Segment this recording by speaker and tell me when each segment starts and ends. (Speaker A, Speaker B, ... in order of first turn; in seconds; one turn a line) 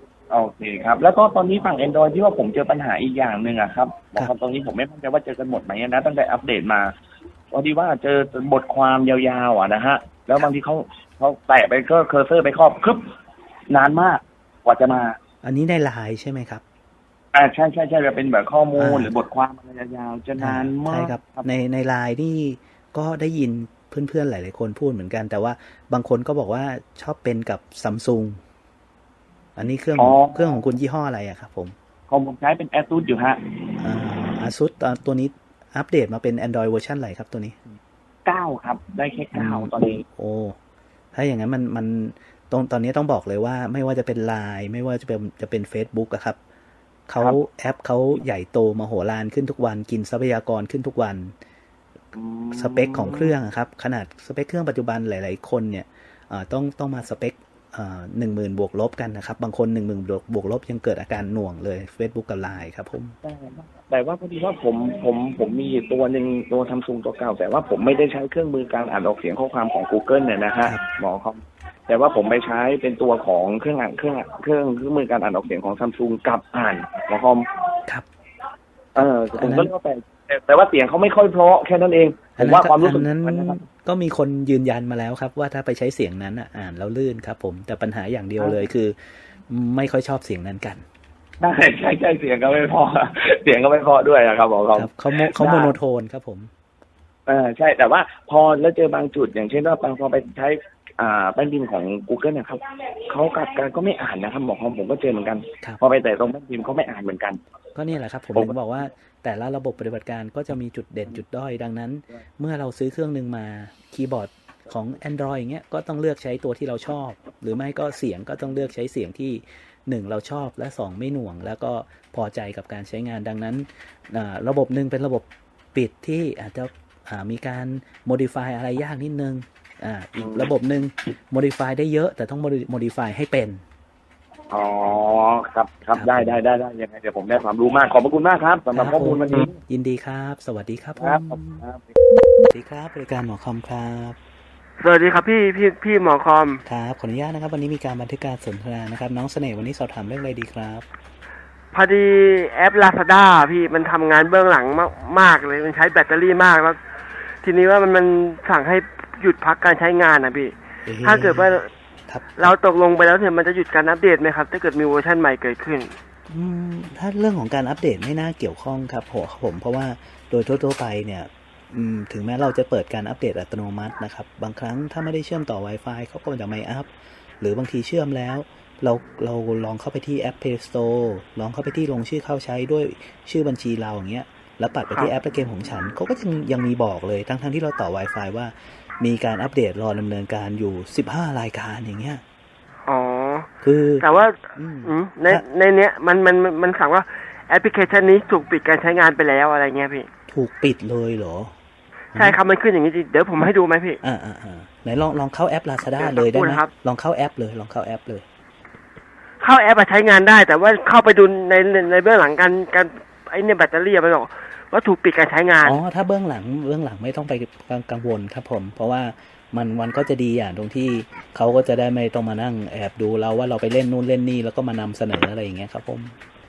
Speaker A: 0.3-6.9
Speaker A: 7.5-13.1
Speaker A: 13.7-15.2
Speaker B: 15.4-16.6
Speaker A: 17.3-21.5
Speaker B: 18.8-19.1
Speaker B: 20.4-28.4
Speaker B: 29.6-31.8
Speaker A: 30.0-30.6
Speaker A: 32.1-33.4
Speaker B: 33.8-37.6
Speaker A: 38.2-40.0
Speaker B: 39.3-40.6
Speaker B: 41.1-46.4
Speaker B: 47.1-51.3
Speaker A: 52.1-53.3
Speaker B: 52.5-63.1
Speaker A: 63.2-77.5
Speaker A: 78.9-83.6
Speaker B: 79.0-79.7
Speaker B: 82.4-90.8
Speaker A: 88.4-88.7
Speaker A: 91.4-95.8
Speaker B: 94.7-96.5
Speaker A: 97.3-107.4
Speaker B: 107.7-133.6
Speaker A: 130.2-130.5
Speaker A: 134.5-139.6
Speaker B: 135.9-136.3
Speaker B: 138.7-141.6
Speaker A: 141.0-141.9
Speaker B: 142.5-144.2
Speaker C: 144.8-146.6
Speaker B: 146.7-150.8
Speaker C: 151.7-156.8
Speaker C: 157.4-161.7
Speaker B: 160.8-162.5
Speaker C: 162.4-165.9
Speaker B: 166.3-192.2
Speaker C: 192.9-193.5
Speaker B: 193.6-194.0
Speaker C: 194.0-200.1
Speaker B: 194.5-195.4
Speaker B: 200.3-201.5
Speaker C: 202.1-204.0
Speaker B: 204.0-208.2
Speaker C: 206.0-206.7
Speaker C: 209.4-215.8
Speaker B: 215.6-226.1